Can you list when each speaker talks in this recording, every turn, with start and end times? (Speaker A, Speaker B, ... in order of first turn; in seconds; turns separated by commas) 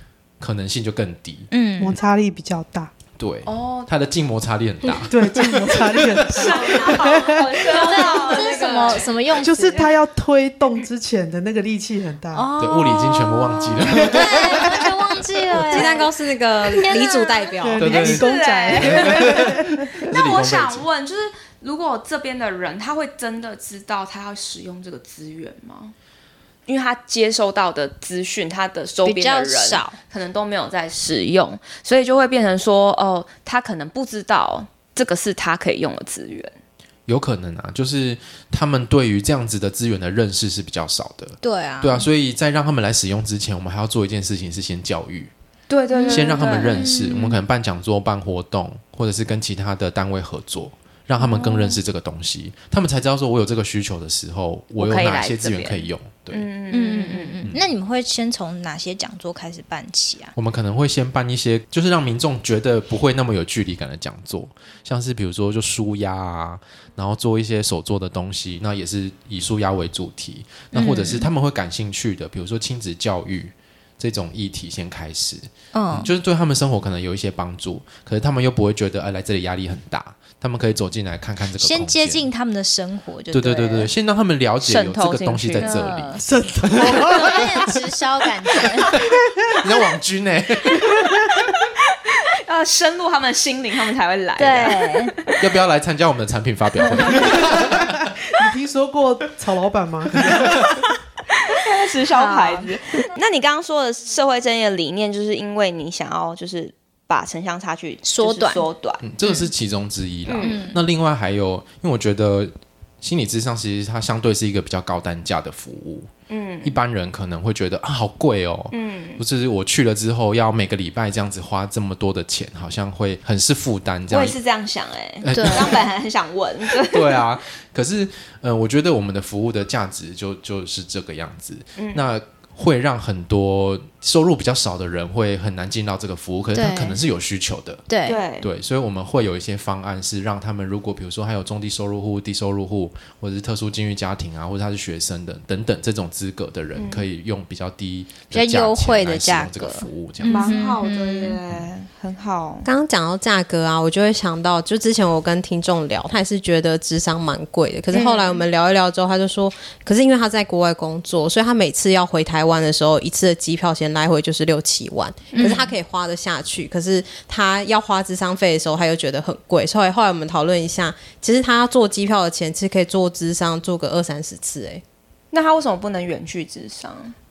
Speaker A: 0.4-1.5, Speaker B: 1.5-2.0, Speaker C: 1.8-2.9, Speaker A: 3.2-6.6, Speaker D: 3.5-3.9, Speaker C: 5.1-7.7, Speaker D: 6.3-9.9, Speaker B: 7.6-9.9, Speaker C: 9.4-12.5, Speaker B: 12.3-16.1, Speaker A: 12.6-14.8, Speaker C: 14.2-14.8, Speaker E: 15.6-18.0, Speaker B: 16.6-17.6, Speaker C: 17.6-20.1, Speaker A: 17.8-20.9, Speaker D: 17.9-25.9, Speaker D: 26.7-36.5, Speaker B: 29.0-30.0, Speaker A: 37.1-45.3, Speaker B: 41.4-42.1, Speaker D: 45.7-46.9, Speaker B: 45.9-47.4, Speaker A: 46.1-56.5, Speaker B: 51.2-51.8, Speaker D: 54.8-57.4, Speaker B: 56.7-60.3, Speaker A: 60.3-82.3, Speaker B: 70.7-71.3, Speaker B: 75.7-76.1, Speaker B: 81.5-83.9, Speaker A: 83.3-87.7, Speaker D: 84.6-86.0, Speaker B: 85.5-86.2, Speaker C: 86.2-87.7, Speaker B: 86.8-89.0, Speaker A: 88.9-91.3, Speaker D: 91.5-95.4, Speaker B: 94.4-95.1, Speaker A: 95.4-98.1, Speaker D: 97.0-97.5, Speaker C: 97.1-100.8, Speaker A: 100.2-100.7, Speaker D: 101.3-109.3, Speaker B: 102.1-102.7, Speaker B: 108.0-108.7, Speaker A: 109.0-116.1, Speaker D: 110.2-110.6, Speaker B: 110.4-110.8, Speaker D: 116.3-116.8, Speaker A: 116.6-124.4, Speaker D: 118.7-119.2, Speaker D: 124.1-127.2, Speaker A: 125.2-125.9, Speaker B: 125.3-125.8, Speaker A: 126.8-137.9, Speaker D: 131.8-132.0, Speaker B: 136.5-137.0, Speaker B: 137.9-138.2, Speaker D: 138.1-138.5, Speaker A: 138.4-150.5, Speaker D: 146.7-147.0, Speaker B: 148.3-151.4, Speaker D: 150.3-152.7, Speaker E: 152.6-174.8, Speaker D: 157.9-158.4, Speaker D: 165.3-165.7, Speaker D: 175.3-177.1